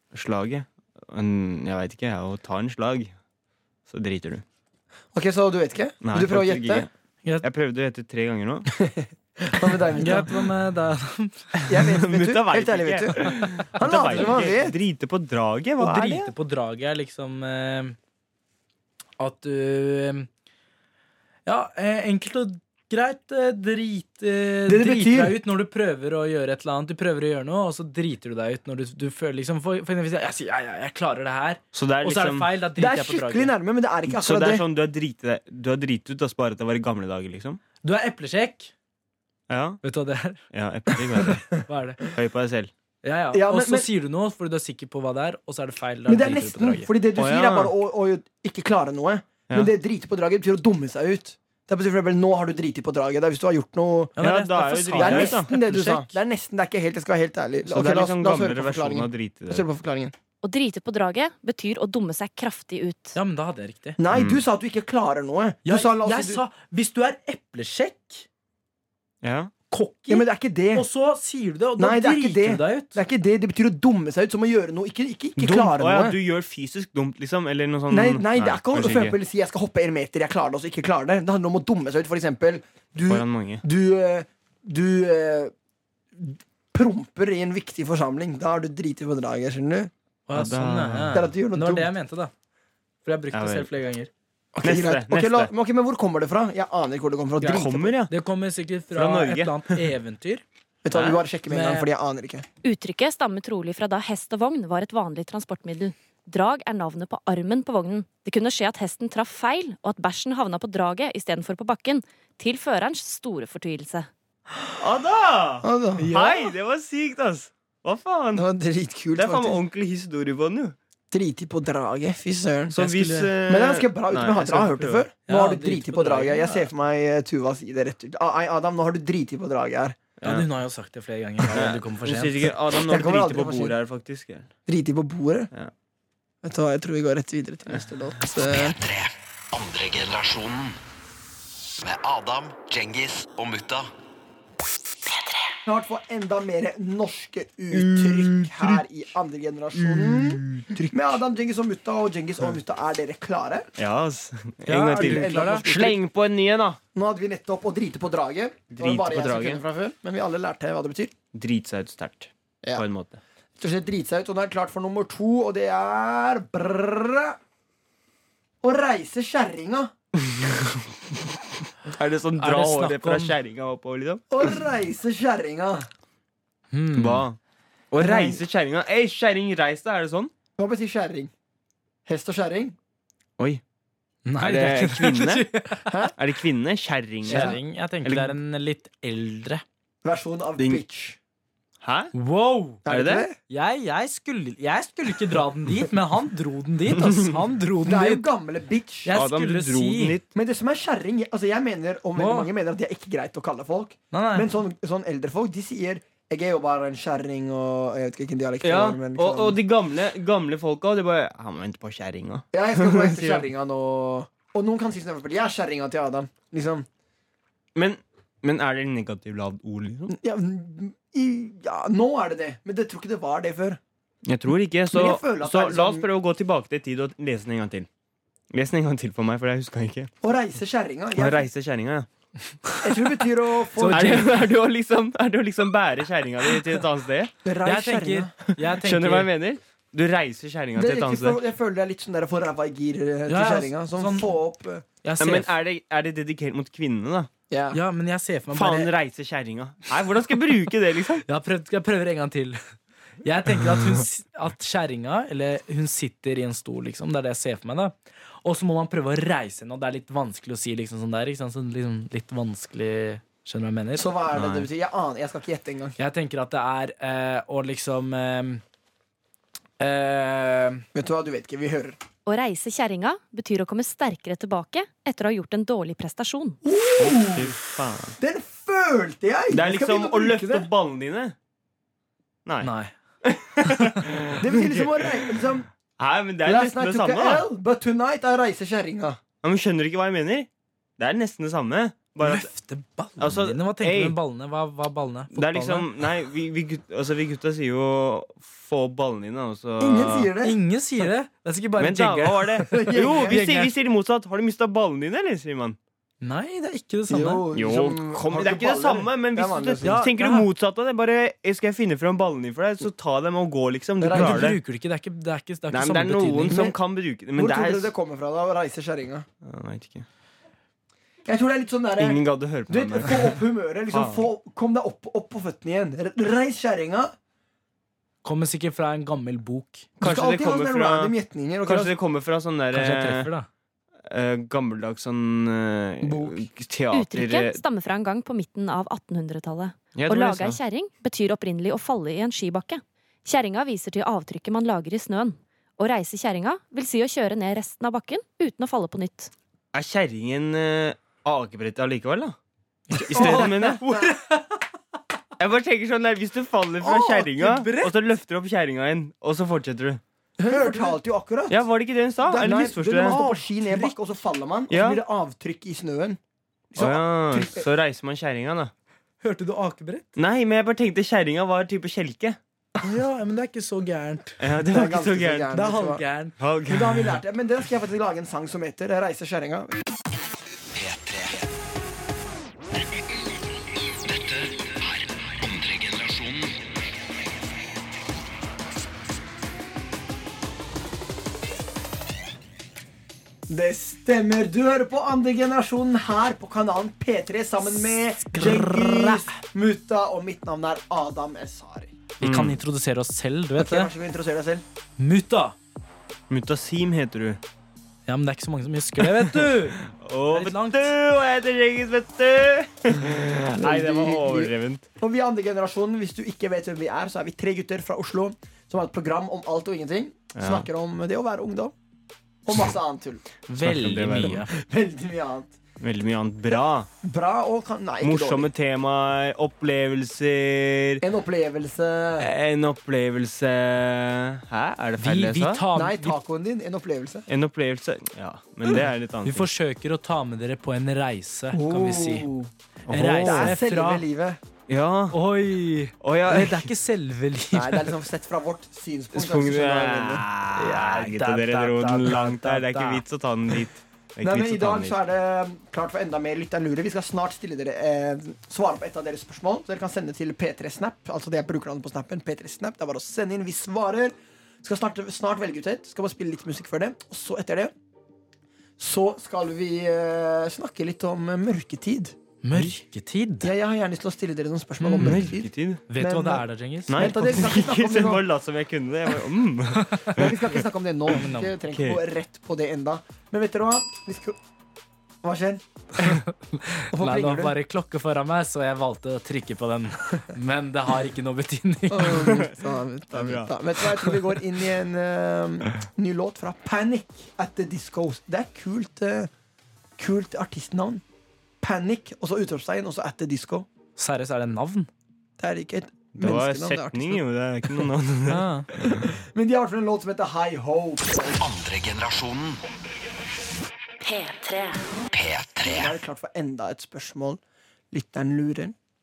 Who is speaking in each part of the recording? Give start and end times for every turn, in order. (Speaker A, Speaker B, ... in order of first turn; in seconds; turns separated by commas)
Speaker A: 0.1-3.1, Speaker A: 3.9-4.4, Speaker B: 5.1-6.9, Speaker A: 6.0-6.9, Speaker A: 7.4-8.7, Speaker B: 8.7-10.4, Speaker C: 10.0-11.7, Speaker B: 11.7-14.8, Speaker A: 11.7-16.3, Speaker C: 15.8-17.9, Speaker C: 19.2-20.3, Speaker C: 21.4-33.5, Speaker B: 24.7-25.4, Speaker A: 31.7-32.5, Speaker B: 32.8-34.6, Speaker A: 34.1-37.6, Speaker C: 37.8-38.7, Speaker A: 39.5-39.8, Speaker C: 39.8-42.0, Speaker A: 40.5-41.5, Speaker A: 42.1-42.7, Speaker C: 43.0-46.9, Speaker B: 43.3-43.9, Speaker B: 46.1-54.1, Speaker A: 47.1-47.7, Speaker C: 54.2-56.0, Speaker A: 54.2-55.7, Speaker B: 54.9-60.1, Speaker A: 57.6-59.6, Speaker D: 60.4-63.1, Speaker C: 63.1-64.0, Speaker B: 64.0-66.4, Speaker A: 64.1-64.4, Speaker C: 65.6-68.2, Speaker A: 69.2-69.5, Speaker C: 69.7-73.0, Speaker B: 70.1-70.9, Speaker B: 71.8-76.2, Speaker A: 75.4-79.2, Speaker B: 77.9-85.5, Speaker A: 83.0-83.6, Speaker B: 86.1-89.9, Speaker C: 90.3-92.3, Speaker A: 90.3-91.2, Speaker B: 91.1-91.9, Speaker C: 93.0-94.1, Speaker A: 93.3-93.7, Speaker B: 94.5-98.0, Speaker A: 94.6-95.5, Speaker A: 97.4-98.1, Speaker C: 98.1-100.4, Speaker A: 98.9-99.8, Speaker B: 100.8-102.4, Speaker C: 101.5-101.9, Speaker D: 102.6-114.1, Speaker A: 114.8-118.5, Speaker B: 115.6-116.1, Speaker C: 116.0-116.5, Speaker B: 118.3-119.6, Speaker A: 119.2-120.8, Speaker B: 121.1-122.8, Speaker A: 122.7-125.1, Speaker C: 122.7-123.3, Speaker B: 123.5-130.0, Speaker C: 125.3-126.7, Speaker A: 130.2-130.5, Speaker C: 130.2-132.5, Speaker A: 131.5-134.5, Speaker B: 132.7-133.7, Speaker B: 134.7-135.5, Speaker B: 136.4-138.8, Speaker E: 138.4-140.8, Speaker E: 141.8-143.9, Speaker B: 145.7-153.7, Speaker A: 147.7-148.8, Speaker A: 149.8-150.9, Speaker A: 153.8-156.8, Speaker C: 154.7-155.7, Speaker B: 154.9-156.0, Speaker B: 156.9-161.1, Speaker A: 158.7-159.6, Speaker A: 161.3-163.2, Speaker B: 163.6-167.4, Speaker B: 168.6-169.9, Speaker A: 170.2-170.8, Speaker A: 171.9-174.4, Speaker C: 172.4-173.3, Speaker B: 174.3-175.9, Speaker C: 176.7-177.2, Speaker A: 176.9-177.4, Speaker A: 177.9-180.3, Speaker B: 178.0-178.4, Speaker B: 180.6-181.3, Speaker B: 182.1-182.8, Speaker C: 184.2-185.9, Speaker A: 184.4-185.5, Speaker B: 185.9-186.1, Speaker A: 186.2-188.3, Speaker B: 187.2-187.6, Speaker C: 187.2-189.6, Speaker B: 190.0-191.2, Speaker A: 191.8-192.1, Speaker C: 192.1-192.8, Speaker B: 192.8-193.3, Speaker A: 192.9-193.3, Speaker C: 193.5-198.2, Speaker A: 197.0-197.3, Speaker B: 197.8-199.1, Speaker C: 199.0-200.2, Speaker A: 199.1-200.3, Speaker B: 200.3-209.6, Speaker C: 202.2-202.5, Speaker C: 204.1-204.5, Speaker A: 208.6-213.4, Speaker B: 212.5-216.9, Speaker A: 217.7-220.1, Speaker B: 220.1-223.8, Speaker A: 224.2-227.9, Speaker B: 224.9-226.1, Speaker A: 228.5-230.1, Speaker B: 230.2-231.5, Speaker A: 231.2-232.1, Speaker B: 232.8-234.3, Speaker C: 233.8-234.3, Speaker A: 233.9-237.3, Speaker B: 237.4-238.3, Speaker C: 237.6-239.3, Speaker A: 238.8-241.4, Speaker B: 240.7-244.8, Speaker C: 243.3-244.3, Speaker C: 245.0-245.5, Speaker A: 245.2-247.3, Speaker B: 247.5-247.8, Speaker C: 247.7-248.9, Speaker A: 248.5-251.2, Speaker C: 251.2-252.6, Speaker C: 253.2-264.2, Speaker B: 263.9-265.9, Speaker A: 264.3-264.7, Speaker C: 266.0-268.6, Speaker C: 269.8-270.8, Speaker B: 270.9-272.0, Speaker D: 272.2-276.6, Speaker B: 276.6-277.6, Speaker A: 277.0-278.1, Speaker B: 278.2-280.7, Speaker A: 279.5-281.3, Speaker A: 282.4-282.7, Speaker C: 282.6-282.9, Speaker A: 283.2-285.1, Speaker C: 283.6-284.0, Speaker B: 284.4-285.7, Speaker A: 286.0-287.4, Speaker B: 286.4-289.2, Speaker A: 289.4-290.5, Speaker A: 291.0-292.5, Speaker C: 292.2-295.9, Speaker A: 293.2-294.2, Speaker A: 295.3-300.3, Speaker B: 299.8-300.6, Speaker C: 300.4-303.7, Speaker A: 301.8-305.8, Speaker B: 302.7-303.4, Speaker C: 306.2-307.4, Speaker B: 307.1-310.0, Speaker A: 307.5-314.6, Speaker C: 309.8-310.5, Speaker B: 314.0-314.6, Speaker C: 314.1-316.6, Speaker A: 315.7-317.9, Speaker B: 316.5-316.8, Speaker B: 317.4-319.2, Speaker A: 319.4-320.1, Speaker B: 321.2-327.1, Speaker A: 322.0-324.3, Speaker C: 328.2-329.9, Speaker A: 330.0-333.3, Speaker B: 330.0-331.9, Speaker C: 332.7-333.5, Speaker A: 334.1-337.6, Speaker B: 336.0-336.4, Speaker D: 336.9-349.3, Speaker A: 339.9-340.6, Speaker A: 349.7-352.4, Speaker C: 352.9-354.6, Speaker A: 353.0-354.1, Speaker B: 353.1-353.7, Speaker A: 355.4-360.0, Speaker C: 356.8-357.9, Speaker B: 360.4-361.6, Speaker C: 360.4-360.9, Speaker A: 361.5-363.2, Speaker B: 362.2-366.2, Speaker C: 362.9-364.0, Speaker A: 364.7-365.0, Speaker B: 366.7-367.6, Speaker A: 366.8-368.7, Speaker C: 369.2-370.0, Speaker A: 370.1-372.4, Speaker C: 372.8-374.4, Speaker A: 374.4-375.5, Speaker B: 374.6-376.0, Speaker C: 375.5-376.4, Speaker A: 376.4-377.2, Speaker B: 376.6-379.8, Speaker E: 380.7-381.4, Speaker E: 384.0-386.6, Speaker B: 393.5-401.9, Speaker C: 398.3-399.3, Speaker A: 402.2-402.6, Speaker C: 402.2-403.9, Speaker B: 403.6-404.6, Speaker C: 405.0-405.6, Speaker A: 406.3-407.4, Speaker C: 408.1-410.9, Speaker A: 409.1-414.9, Speaker B: 413.5-421.7, Speaker A: 420.4-420.7, Speaker B: 422.4-423.2, Speaker C: 423.5-424.5, Speaker A: 423.6-424.4, Speaker B: 424.5-425.5, Speaker A: 425.8-426.9, Speaker B: 427.0-428.5, Speaker A: 428.0-431.0, Speaker B: 431.0-432.3, Speaker A: 432.2-435.6, Speaker C: 435.0-436.2, Speaker B: 435.7-437.3, Speaker A: 437.3-439.5, Speaker C: 439.2-442.3, Speaker B: 441.5-442.5, Speaker A: 442.9-443.5, Speaker C: 442.9-444.0, Speaker B: 443.2-444.4, Speaker A: 444.7-445.2, Speaker C: 445.1-448.0, Speaker A: 446.0-446.7, Speaker B: 447.5-450.2, Speaker A: 449.1-454.9, Speaker C: 450.5-453.0, Speaker B: 454.2-467.7, Speaker B: 468.8-472.1, Speaker C: 472.4-473.5, Speaker B: 473.4-478.2, Speaker C: 474.8-475.2, Speaker A: 475.0-475.8, Speaker C: 475.9-477.2, Speaker A: 476.9-480.4, Speaker C: 479.8-480.2, Speaker B: 480.1-484.4, Speaker C: 481.1-481.5, Speaker A: 481.7-482.0, Speaker B: 485.2-485.6, Speaker C: 486.0-492.3, Speaker B: 486.9-487.5, Speaker B: 491.9-499.3, Speaker A: 492.1-492.6, Speaker A: 493.1-494.2, Speaker B: 500.0-501.0, Speaker B: 501.6-503.7, Speaker C: 503.9-504.9, Speaker B: 505.4-507.2, Speaker A: 506.2-509.0, Speaker C: 508.3-508.7, Speaker B: 508.8-511.4, Speaker E: 511.4-512.6, Speaker D: 514.1-514.8, Speaker E: 515.1-516.0, Speaker B: 515.6-517.4, Speaker B: 517.9-518.8